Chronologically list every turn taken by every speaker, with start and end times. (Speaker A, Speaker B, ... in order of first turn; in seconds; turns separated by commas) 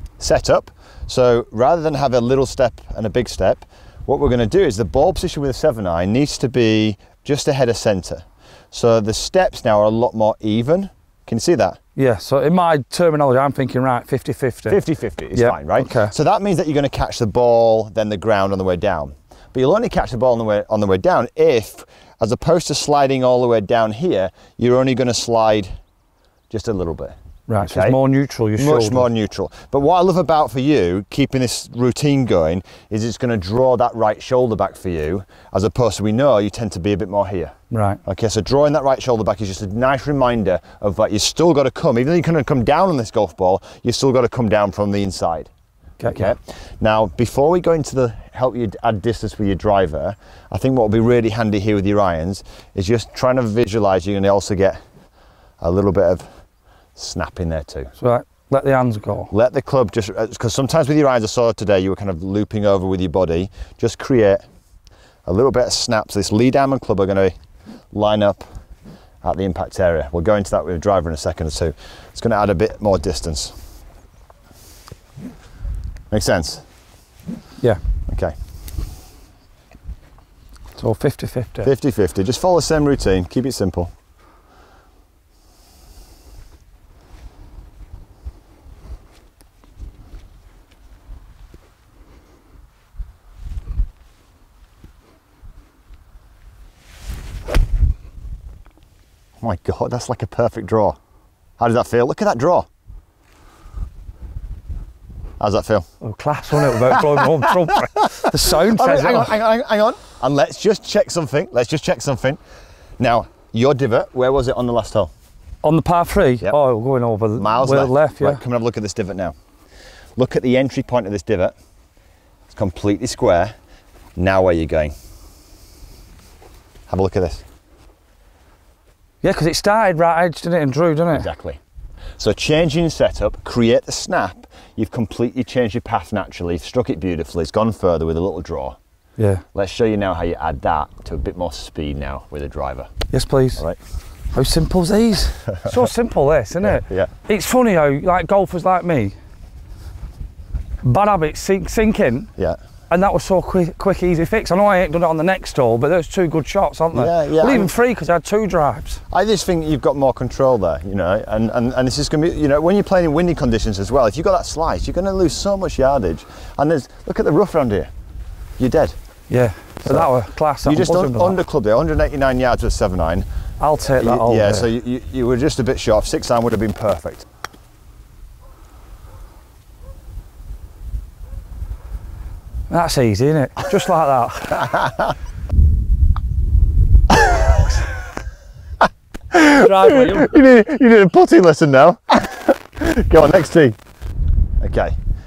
Speaker A: 0.2-11.8, Speaker B: 12.0-14.8, Speaker A: 14.7-25.7, Speaker B: 15.3-16.1, Speaker A: 26.5-28.0, Speaker B: 27.5-29.1, Speaker A: 28.6-37.5, Speaker B: 37.7-38.0, Speaker A: 38.1-45.5, Speaker B: 46.0-46.3, Speaker A: 46.1-54.8, Speaker A: 55.6-56.2, Speaker A: 57.0-57.9, Speaker B: 58.0-59.3, Speaker A: 59.3-64.4, Speaker A: 65.3-67.3, Speaker A: 67.9-68.4, Speaker A: 69.2-73.5, Speaker A: 76.1-76.6, Speaker A: 78.1-78.3, Speaker B: 80.8-81.7, Speaker A: 81.6-83.9, Speaker A: 99.4-101.0, Speaker A: 101.6-102.7, Speaker A: 105.4-105.9, Speaker B: 106.0-109.4, Speaker A: 106.8-112.4, Speaker A: 113.0-115.1, Speaker B: 115.6-118.4, Speaker A: 117.4-119.3, Speaker A: 120.2-121.5, Speaker A: 122.5-123.5, Speaker A: 124.2-124.9, Speaker A: 126.9-127.4, Speaker B: 129.2-131.3, Speaker A: 131.1-131.6, Speaker A: 132.2-138.8, Speaker B: 139.2-139.4, Speaker A: 139.5-142.9, Speaker B: 143.1-143.6, Speaker B: 144.3-149.2, Speaker A: 145.5-145.8, Speaker A: 146.6-147.1, Speaker B: 150.8-152.3, Speaker B: 152.9-159.0, Speaker A: 156.9-157.7, Speaker A: 159.1-167.9, Speaker A: 168.6-168.9, Speaker B: 169.3-171.4, Speaker A: 169.8-170.1, Speaker A: 170.7-173.3, Speaker B: 173.6-174.7, Speaker A: 174.0-177.2, Speaker B: 182.7-184.8, Speaker A: 189.3-193.8, Speaker B: 189.6-190.3, Speaker A: 194.6-194.9